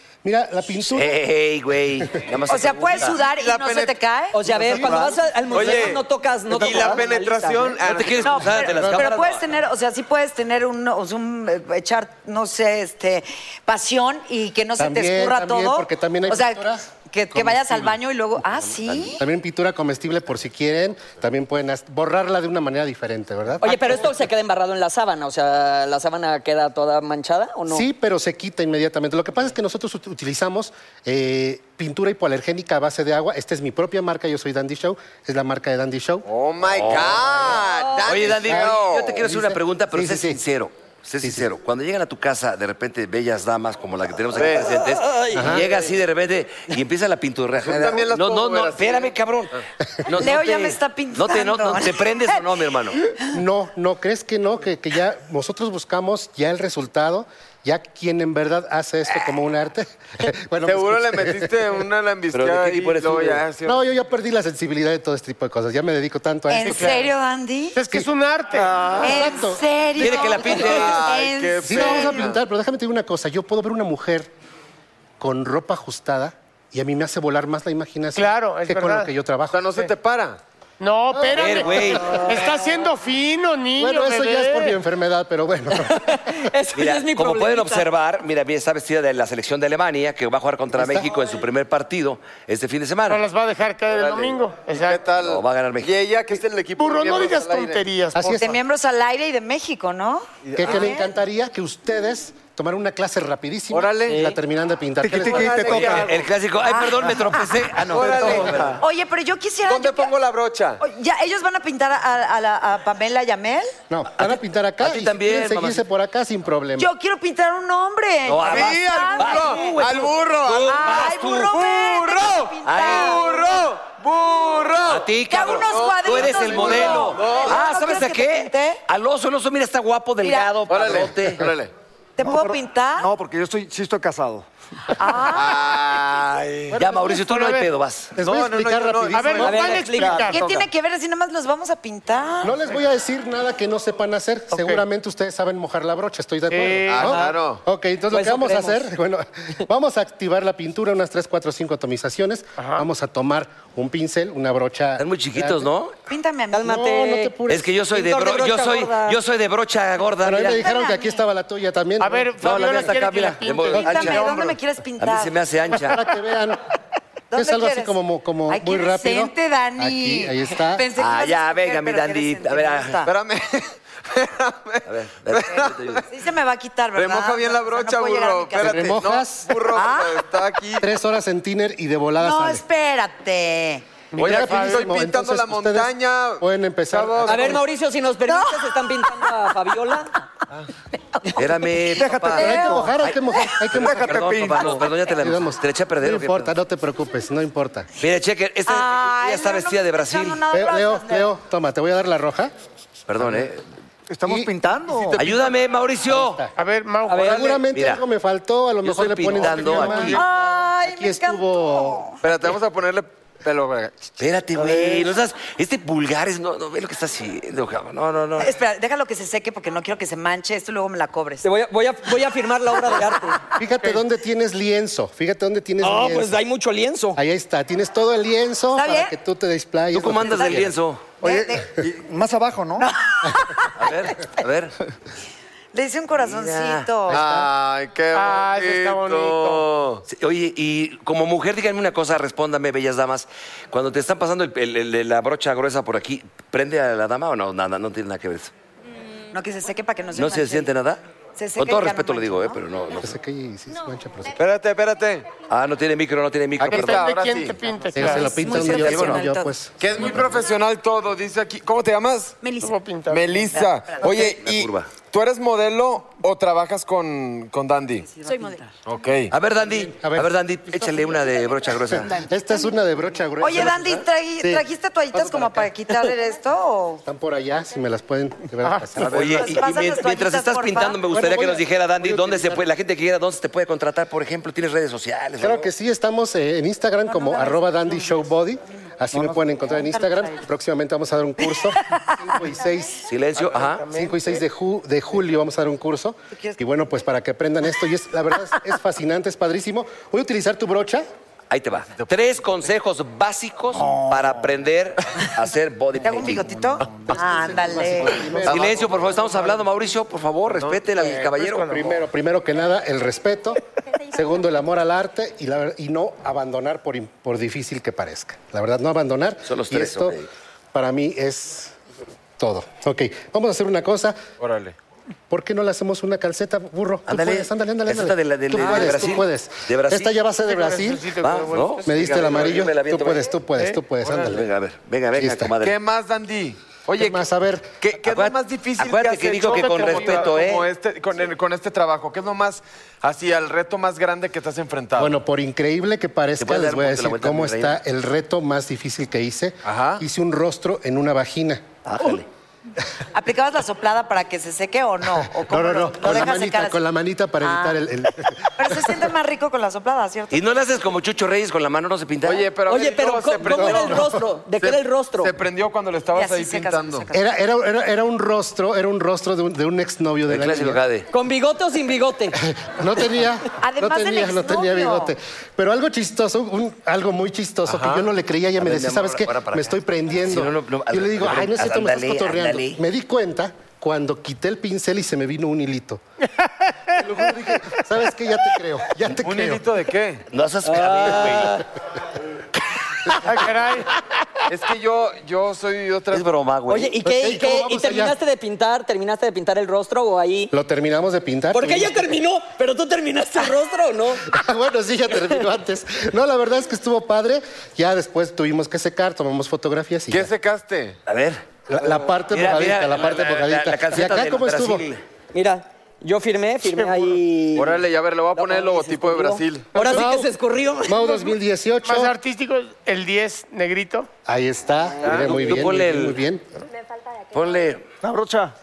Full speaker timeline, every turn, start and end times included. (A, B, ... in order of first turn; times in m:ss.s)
0:00.2-0:01.2 A
0:00.9-0:03.2 B
0:02.0-0:02.3 A
0:02.5-0:05.0 C
0:03.3-0:04.0 D
0:04.3-0:07.8 E
0:04.6-0:08.5 D
0:07.8-0:09.4 B
0:08.2-0:19.2 C
0:08.8-0:09.1 A
0:14.8-0:17.5 A
0:18.6-0:19.2 B
0:19.2-0:24.2 A
0:23.6-0:27.9 E
0:27.7-0:36.3 A
0:36.2-0:39.2 D
0:36.7-0:37.3 B
0:38.0-0:49.5 B
0:38.5-0:40.4 A
0:41.2-0:41.5 A
0:44.3-0:44.8 D
0:44.8-0:45.6 E
0:45.3-0:45.7 A
0:47.6-0:49.1 D
0:50.0-0:53.0 B
0:50.1-0:52.4 C
0:53.3-1:01.5 A
1:00.6-1:03.8 D
1:02.3-1:03.4 B
1:03.7-1:07.0 A
1:06.5-1:07.8 C
1:06.6-1:07.1 F
1:07.8-1:08.9 F
1:08.7-1:09.0 D
1:09.0-1:10.0 A
1:09.0-1:12.3 C
1:10.0-1:11.1 B
1:10.5-1:12.4 D
1:11.6-1:14.3 A
1:15.2-1:19.6 A
1:18.2-1:19.1 F
1:19.5-1:20.4 D
1:20.8-1:24.8 F
1:21.1-1:21.6 A
1:21.3-1:22.2 B
1:23.8-1:26.2 A
1:25.7-1:27.9 E
1:26.8-1:33.2 B
1:30.7-1:31.1 A
1:33.1-1:35.0 F
1:33.9-1:37.8 D
1:35.2-1:35.9 B
1:36.8-1:38.6 F
1:38.2-1:38.4 A
1:38.4-1:41.1 C
1:40.5-1:40.9 D
1:40.6-1:46.0 A
1:43.7-1:44.3 D
1:45.0-1:46.1 G
1:45.1-1:46.2 D
1:45.7-1:48.8 B
1:46.6-1:47.5 C
1:47.9-1:48.8 D
1:48.8-1:50.1 C
1:49.7-1:50.8 D
1:50.8-1:53.7 C
1:53.9-1:56.9 A
1:54.2-1:55.8 B
1:56.8-2:00.0 C
1:58.2-2:01.6 B
1:58.4-2:05.1 D
2:00.7-2:03.6 C
2:02.6-2:03.2 B
2:04.8-2:11.5 B
2:05.3-2:08.8 C
2:05.7-2:07.6 D
2:10.2-2:10.8 C
2:10.7-2:11.7 D
2:12.2-2:13.1 C
2:12.2-2:14.5 G
2:15.0-2:15.8 C
2:15.2-2:16.8 D
2:16.7-2:18.1 B
2:16.8-2:17.1 A
2:17.0-2:17.7 F
2:18.2-2:19.7 A
2:18.2-2:19.6 D
2:19.1-2:20.5 F
2:19.4-2:20.6 E
2:20.3-2:22.7 C
2:22.4-2:35.7 A
2:24.5-2:24.8 F
2:26.5-2:27.2 F
2:26.9-2:27.6 D
2:28.1-2:28.9 E
2:32.6-2:32.9 F
2:35.0-2:36.0 B
2:36.1-2:36.8 C
2:36.5-2:37.4 E
2:36.6-2:37.7 A
2:37.5-2:40.6 B
2:37.9-2:39.2 E
2:40.2-2:42.4 A
2:40.3-2:41.2 C
2:42.0-2:44.5 F
2:42.4-2:44.3 B
2:43.7-2:45.4 C
2:45.0-2:46.0 B
2:45.8-2:46.6 A
2:47.3-2:53.1 C
2:47.3-2:50.9 A
2:51.0-2:53.1 B
2:53.1-2:56.0 D
2:54.9-2:56.0 B
2:55.6-2:59.0 C
2:56.9-3:00.9 D
2:58.6-2:59.6 A
2:59.7-3:00.2 C
3:00.8-3:02.6 A
3:02.2-3:04.0 C
3:04.1-3:04.9 F
3:04.2-3:07.6 D
3:04.2-3:07.6 A
3:07.2-3:10.1 E
3:08.3-3:09.1 C
3:11.4-3:16.5 B
3:12.0-3:12.6 G
3:12.3-3:14.1 A
3:12.4-3:12.9 C
3:13.7-3:14.8 D
3:15.1-3:17.9 A
3:18.0-3:20.4 B
3:18.7-3:21.3 C
3:20.5-3:22.5 A
3:23.1-3:23.6 B
3:24.1-3:25.2 G
3:24.2-3:25.6 A
3:25.2-3:26.4 B
3:26.1-3:26.5 A
3:26.6-3:27.7 F
3:27.1-3:27.5 E
3:27.2-3:30.3 A
3:27.7-3:28.0 B
3:28.8-3:30.2 B
3:30.0-3:32.2 C
3:30.8-3:32.1 A
3:32.2-3:34.1 D
3:34.2-3:38.6 B
3:34.6-3:35.0 E
3:38.4-3:41.4 C
3:41.4-3:43.4 E
3:43.6-3:46.4 A
3:45.8-3:47.2 E
3:47.2-3:50.7 A
3:48.7-3:49.1 C
3:49.9-3:51.0 B
3:50.2-3:50.7 C
3:51.2-3:51.7 C
3:51.2-3:52.9 G
3:52.8-3:53.9 C
3:53.8-3:54.7 B
3:55.7-3:57.2 C
3:56.2-3:56.9 B
3:57.1-4:00.0 D
3:57.2-3:57.4 A
3:58.1-3:59.7 F
4:00.1-4:08.5 B
4:09.3-4:10.7 C
4:10.2-4:11.0 B
4:11.4-4:12.6 C
4:11.6-4:13.2 B
4:13.0-4:14.4 A
4:14.4-4:15.3 D
4:15.5-4:17.1 B
4:16.6-4:17.6 D
4:16.7-4:18.5 F
4:18.0-4:20.0 A
4:18.0-4:19.5 C
4:18.4-4:19.3 B
4:19.8-4:22.4 D
4:22.5-4:23.6 F
4:23.1-4:28.1 D
4:23.6-4:24.0 C
4:24.0-4:24.9 B
4:28.1-4:28.7 C
4:28.8-4:29.3 D
4:29.3-4:32.2 B
4:29.8-4:30.3 A
4:31.9-4:35.7 A
4:33.4-4:37.0 C
4:33.6-4:34.0 B
4:37.0-4:39.4 A
4:38.6-4:39.3 F
4:39.0-4:45.7 B
4:39.2-4:41.0 C
4:41.1-4:42.6 A
4:45.4-4:53.1 A
4:47.1-4:48.3 C
4:49.2-4:50.4 C
4:51.4-4:52.4 C
4:53.1-4:53.9 B
4:53.4-4:54.4 F
4:53.9-5:01.1 A
4:56.3-4:56.6 C
5:01.5-5:06.6 B
5:03.8-5:04.3 G
5:06.0-5:08.4 C
5:07.0-5:09.0 A
5:08.3-5:09.2 D
5:08.4-5:11.8 B
5:11.0-5:12.0 F
5:11.7-5:13.6 A
5:14.1-5:20.2 A
5:19.5-5:20.3 B
5:20.7-5:21.8 A
5:22.4-5:24.2 A
5:24.4-5:24.8 D
5:25.3-5:31.1 A
5:27.1-5:30.2 B
5:28.6-5:29.0 F
5:30.3-5:32.6 F
5:31.2-5:33.3 B
5:31.9-5:34.4 A
5:33.5-5:33.9 F
5:34.0-5:34.3 D
5:34.3-5:35.8 B
5:35.1-5:35.5 A
5:35.6-5:37.3 D
5:37.0-5:37.8 A
5:37.8-5:45.2 D
5:38.0-5:40.7 B
5:45.0-5:52.2 A
5:46.4-5:47.8 B
5:49.6-5:50.0 D
5:51.8-5:52.2 B
5:53.1-5:56.8 C
5:55.2-5:59.0 A
5:57.4-5:57.8 C
5:58.6-6:00.6 C
6:00.3-6:02.5 B
6:02.2-6:07.1 D
6:02.7-6:05.3 E
6:03.5-6:04.1 A
6:06.1-6:07.2 C
6:07.1-6:10.8 A
6:10.3-6:11.1 B
6:11.1-6:12.4 E
6:12.4-6:26.0 A
6:13.6-6:15.1 C
6:17.7-6:18.1 D
6:18.6-6:22.8 B
6:26.4-6:27.8 F
6:27.0-6:29.7 A
6:29.2-6:30.3 D
6:30.3-6:31.6 B
6:30.6-6:31.6 E
6:33.2-6:34.0 F
6:34.5-6:36.2 D
6:36.1-6:37.0 B
6:36.7-6:40.5 E
6:37.0-6:38.2 A
6:40.5-6:42.1 A
6:41.5-6:44.3 E
6:44.3-6:50.3 A
6:50.1-6:51.0 D
6:51.1-6:51.4 B
6:51.7-6:54.8 A
6:52.3-6:55.0 B
6:55.3-6:57.8 E
6:56.7-6:57.2 F
6:57.6-6:59.7 D
6:58.4-7:01.1 E
6:59.8-7:00.3 A
7:00.8-7:02.1 A
7:01.0-7:04.1 F
7:04.3-7:06.5 A
7:05.0-7:05.5 E
7:05.1-7:05.4 D
7:05.1-7:06.2 B
7:07.3-7:07.8 B
7:08.0-7:08.6 G